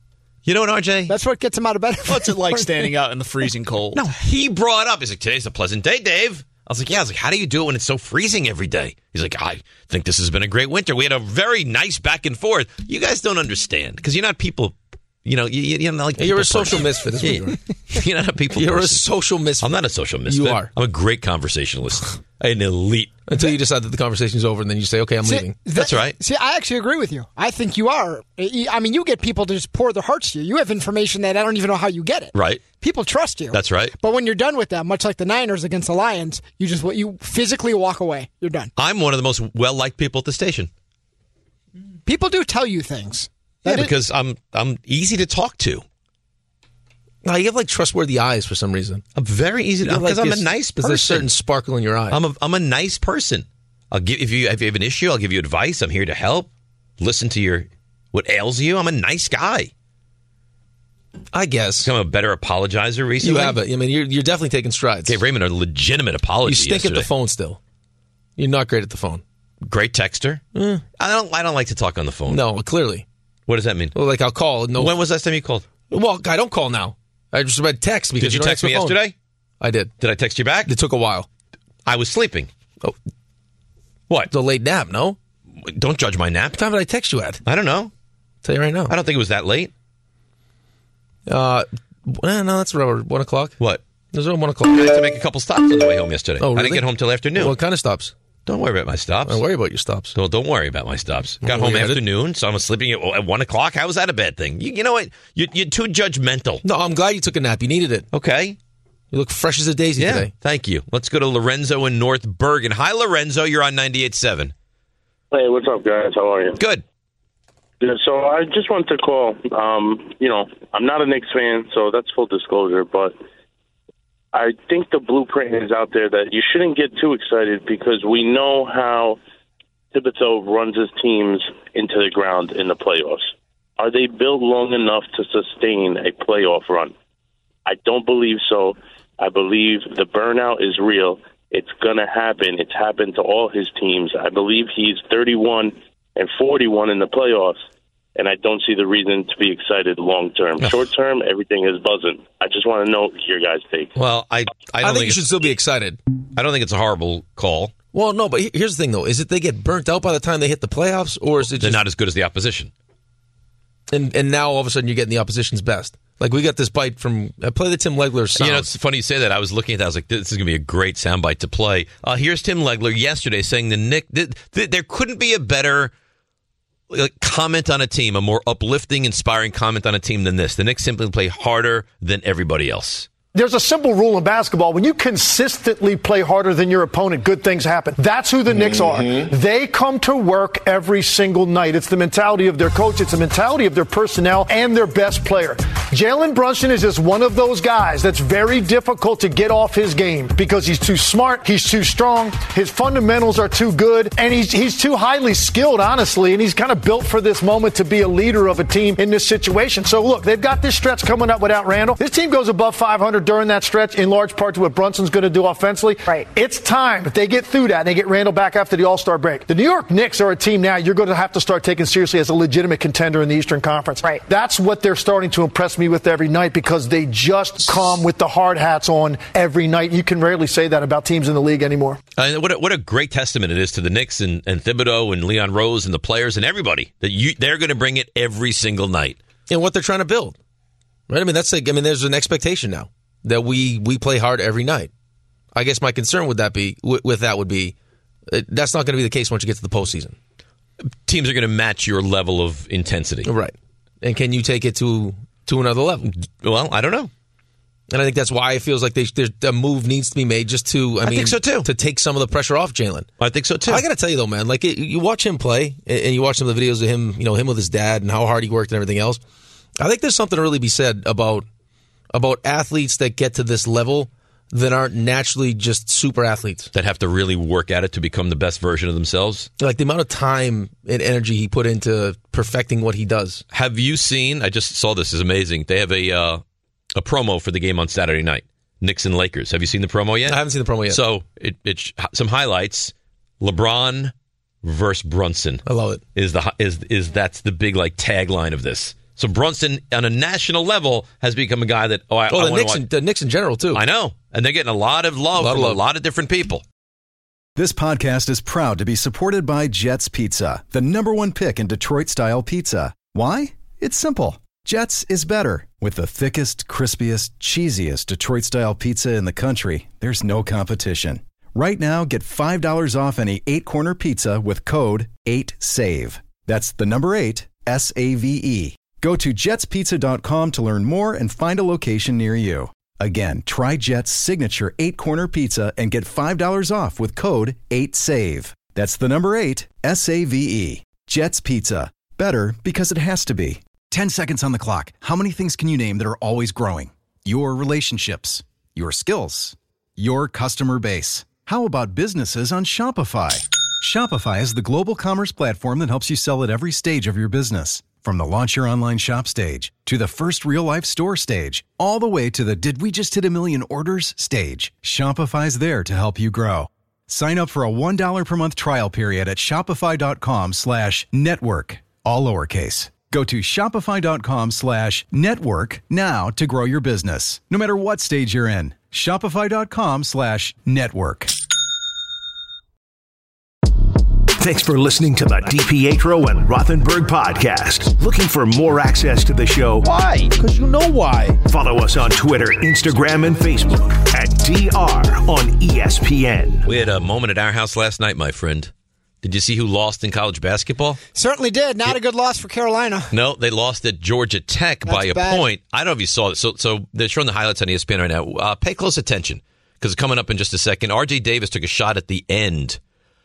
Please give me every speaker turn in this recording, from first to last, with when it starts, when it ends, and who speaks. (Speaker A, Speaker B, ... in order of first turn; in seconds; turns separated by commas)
Speaker A: 0.5-1.2, Speaker B: 1.1-2.9, Speaker C: 2.1-4.0, Speaker A: 3.9-19.1, Speaker D: 16.2-17.6, Speaker D: 18.5-19.7, Speaker A: 19.6-23.3, Speaker D: 20.3-20.7, Speaker D: 23.3-25.6, Speaker B: 25.2-38.7, Speaker A: 25.8-26.2, Speaker A: 32.3-32.6, Speaker A: 33.5-33.9, Speaker A: 38.8-40.7, Speaker B: 42.1-43.9, Speaker A: 43.6-45.8, Speaker D: 47.2-49.0, Speaker A: 49.2-51.3, Speaker D: 49.8-52.2, Speaker A: 52.1-56.5, Speaker A: 57.0-59.7, Speaker D: 61.3-61.9, Speaker A: 61.8-63.6, Speaker D: 63.2-65.2, Speaker A: 65.1-67.1, Speaker D: 66.5-67.6, Speaker D: 68.4-69.2, Speaker A: 69.7-70.4, Speaker D: 70.5-70.8, Speaker A: 71.0-72.4, Speaker D: 72.3-73.0, Speaker A: 73.5-73.9, Speaker D: 74.0-74.9, Speaker A: 74.8-75.7, Speaker D: 75.9-79.0, Speaker A: 78.2-79.1, Speaker D: 79.6-79.9, Speaker A: 80.0-80.7, Speaker D: 80.7-81.3, Speaker A: 81.9-82.5, Speaker D: 84.3-85.2, Speaker A: 85.6-86.6, Speaker D: 86.5-87.4, Speaker A: 87.5-87.9, Speaker D: 88.4-89.0, Speaker A: 88.9-89.7, Speaker D: 91.3-93.6, Speaker D: 94.1-94.9, Speaker A: 94.7-97.6, Speaker D: 96.4-98.1, Speaker A: 98.5-99.4, Speaker D: 99.3-100.2, Speaker A: 100.2-106.6, Speaker D: 101.4-102.0, Speaker D: 106.6-108.1, Speaker A: 108.1-108.6, Speaker D: 109.1-110.3, Speaker A: 110.0-114.5, Speaker E: 115.3-116.6, Speaker A: 116.6-116.8, Speaker E: 117.8-123.2, Speaker E: 124.3-129.2, Speaker E: 129.9-136.9, Speaker E: 137.7-147.6, Speaker E: 148.2-153.9, Speaker A: 150.6-150.8, Speaker A: 154.0-155.2, Speaker D: 154.8-156.0, Speaker A: 156.3-157.7, Speaker D: 157.9-161.8, Speaker A: 161.5-162.7, Speaker D: 163.9-168.7, Speaker A: 168.4-175.9, Speaker A: 176.9-183.1, Speaker F: 183.3-232.0, Speaker A: 232.2-239.2, Speaker D: 239.5-240.4, Speaker D: 241.1-244.9, Speaker D: 245.5-247.8, Speaker D: 248.3-250.2, Speaker A: 251.1-253.3, Speaker D: 253.2-256.1, Speaker A: 256.1-257.1, Speaker D: 257.9-263.1, Speaker A: 261.0-261.7, Speaker A: 263.2-263.9, Speaker D: 263.7-269.2, Speaker D: 269.8-271.5, Speaker D: 272.1-276.7, Speaker A: 276.7-279.5, Speaker D: 279.6-283.4, Speaker A: 283.5-286.4, Speaker A: 286.9-295.6, Speaker D: 290.3-291.0, Speaker D: 295.7-296.0, Speaker A: 296.1-302.8, Speaker D: 302.3-303.8, Speaker A: 303.7-306.6, Speaker D: 305.4-305.8, Speaker G: 307.6-381.3, Speaker H: 384.4-389.9, Speaker H: 391.4-396.7, Speaker A: 396.7-398.7, Speaker A: 399.2-401.0, Speaker B: 401.1-403.1, Speaker A: 403.1-412.8, Speaker B: 404.9-405.5